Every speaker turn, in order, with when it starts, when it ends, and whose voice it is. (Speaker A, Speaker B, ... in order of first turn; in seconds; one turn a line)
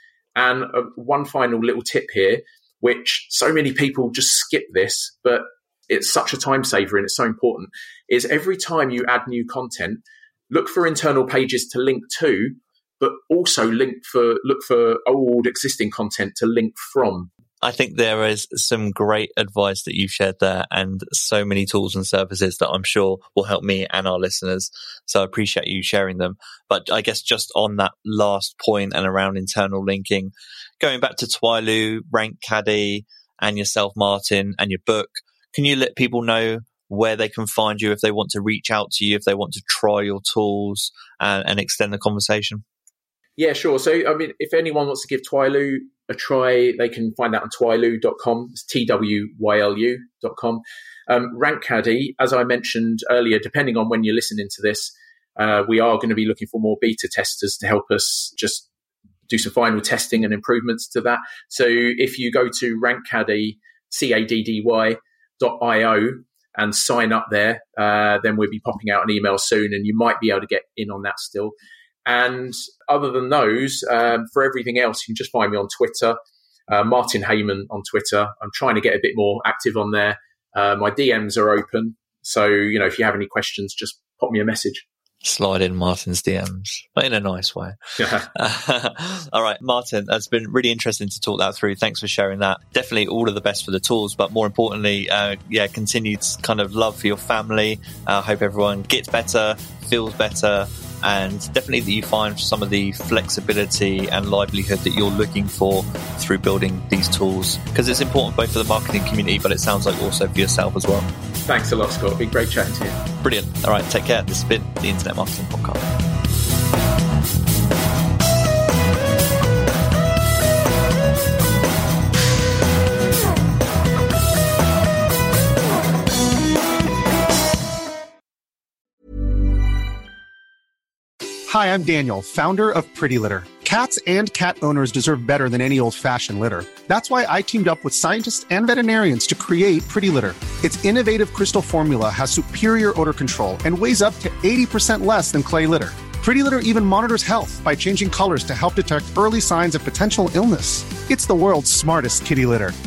Speaker A: 0.3-17.3
Speaker B: 17.6-42.6
Speaker A: 43.4-58.7
Speaker A: 59.3-71.5
Speaker A: 72.0-76.2
Speaker A: 76.7-84.8
Speaker B: 85.2-111.1
Speaker A: 88.0-88.3
Speaker A: 111.5-113.0
Speaker B: 113.2-115.8
Speaker C: 131.5-152.8